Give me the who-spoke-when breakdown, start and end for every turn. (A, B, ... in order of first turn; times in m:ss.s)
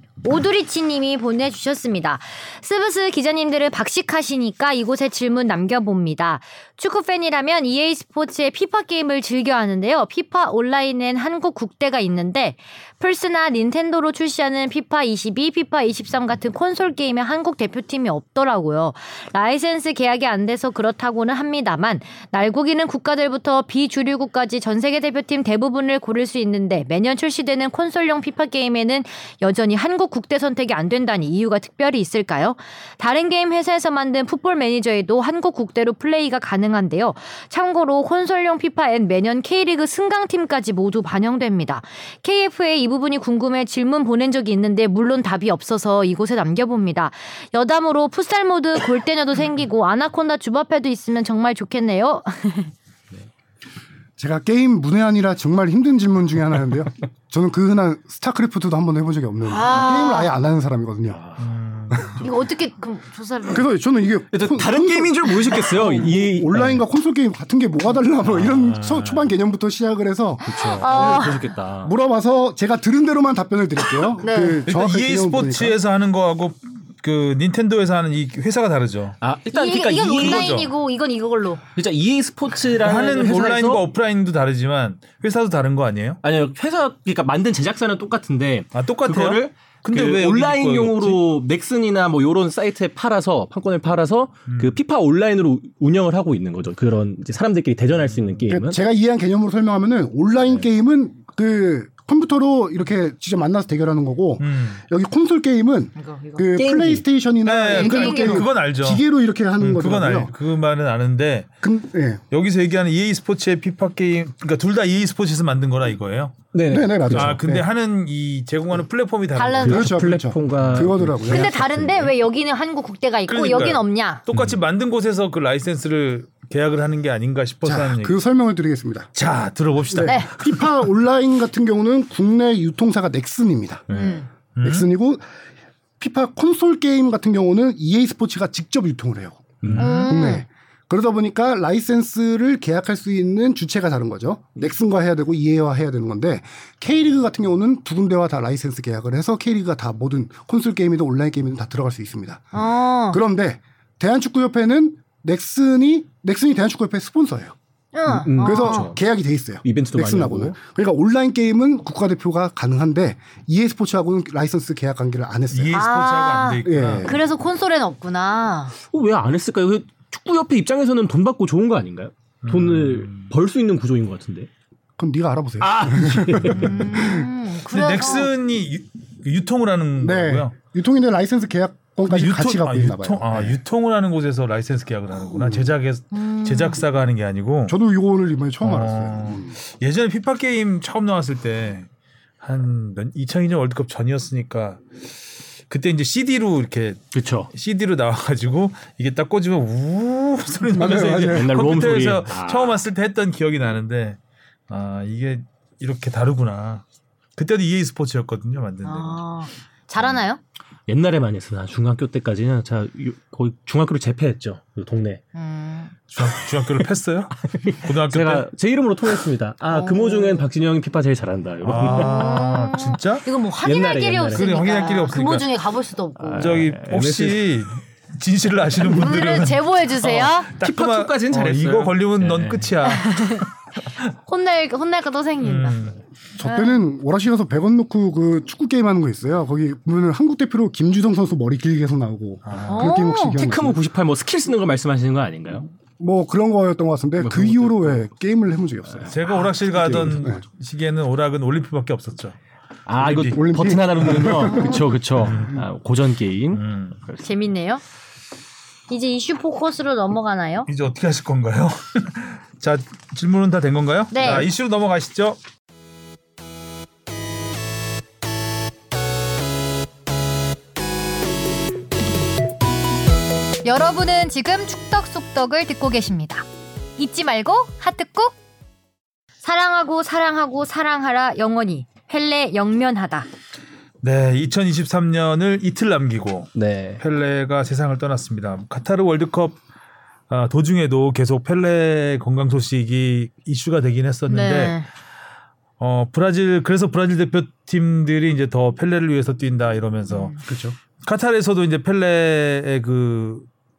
0:00.2-0:52.7 A
0:54.2-1:01.2 B
0:59.5-1:00.3 A
1:01.0-1:01.4 C
1:01.4-1:02.2 D
1:01.9-1:02.2 B
1:02.2-1:03.7 A
1:03.5-1:15.8 B
1:04.3-1:06.8 C
1:08.3-1:09.2 C
1:10.4-1:11.9 C
1:10.6-1:11.4 A
1:14.2-1:14.6 A
1:14.7-1:19.2 D
1:19.2-1:20.6 C
1:19.5-1:21.6 A
1:20.2-1:20.7 D
1:21.8-1:23.8 C
1:22.7-1:26.2 D
1:26.2-1:38.8 C
1:28.7-1:31.2 D
1:34.5-1:34.8 D
1:38.1-1:38.4 D
1:38.5-1:50.3 B
1:44.4-1:44.8 D
1:46.0-1:46.6 A
1:46.5-1:47.0 C
1:47.4-1:49.0 D
1:47.7-1:48.5 A
1:49.6-1:51.5 D
1:51.6-1:52.2 B
1:52.3-1:56.4 D
1:56.5-1:57.4 C
1:56.7-1:57.6 B
1:57.1-2:00.9 D
1:59.3-1:59.8 A
1:59.6-2:02.1 C
1:59.6-2:01.5 B
2:01.2-2:04.2 A
2:03.3-2:08.2 D
2:07.6-2:09.1 B
2:09.1-2:10.8 D
2:09.9-2:13.8 B
2:10.0-2:10.3 A
2:13.9-2:14.3 A
2:13.9-2:14.2 C
2:14.6-2:14.8 D
2:14.6-2:15.2 B
2:16.0-2:32.5 B
2:19.6-2:20.0 C
2:19.6-2:20.1 D
2:19.8-2:20.4 A
2:32.5-2:33.2 A
2:33.1-2:37.5 B
2:37.9-2:38.9 A
2:38.1-2:39.0 C
2:38.4-2:45.9 B
2:39.6-2:40.5 C
2:45.5-2:47.1 D
2:45.7-2:48.7 A
2:46.6-2:47.2 B
2:48.8-2:54.5 C
2:52.4-2:53.3 D
2:55.0-2:57.2 B
2:55.6-2:56.8 C
2:56.5-2:58.3 A
2:57.7-3:00.5 D
3:00.0-3:03.6 B
3:02.1-3:07.8 D
3:05.3-3:05.7 B
3:06.1-3:06.8 A
3:07.7-3:09.6 B
3:08.6-3:11.9 D
3:12.4-3:14.8 D
3:15.7-3:26.8 D
3:17.1-3:17.5 C
3:20.7-3:21.6 B
3:21.2-3:22.8 C
3:27.4-3:29.2 D
3:28.8-3:30.4 A
3:30.9-3:35.2 C
3:35.3-3:35.9 A
3:36.1-3:38.5 D
3:37.5-3:42.4 C
3:39.7-3:40.4 A
3:41.6-3:43.3 D
3:41.8-3:46.6 A
3:43.6-3:44.5 C
3:44.3-3:45.5 D
3:46.2-3:47.5 C
3:46.4-3:53.5 D
3:48.8-3:50.5 A
3:50.6-3:52.7 C
3:52.8-3:53.5 A
3:54.2-3:55.8 A
3:55.4-3:56.0 D
3:56.4-4:03.8 B
3:56.4-3:56.8 A
4:02.4-4:02.9 D
4:02.7-4:03.4 A
4:03.2-4:05.7 C
4:06.0-4:10.4 B
4:07.2-4:08.0 C
4:09.1-4:12.4 D
4:12.9-4:17.2 C
4:13.0-4:13.5 D
4:13.3-4:14.9 B
4:15.2-4:15.6 D
4:16.5-4:17.0 D
4:17.2-4:17.8 A
4:18.9-4:20.7 A
4:20.7-4:25.4 D
4:24.1-4:24.5 A
4:33.6-4:36.4 A
4:37.0-4:38.4 A
4:39.4-4:43.3 A
4:44.0-4:49.6 D
4:46.5-4:47.0 C
4:50.3-4:54.8 D
4:54.3-4:54.9 A
4:55.8-5:00.4 D
5:00.1-5:00.4 A
5:00.4-5:00.8 B
5:01.0-5:03.5 D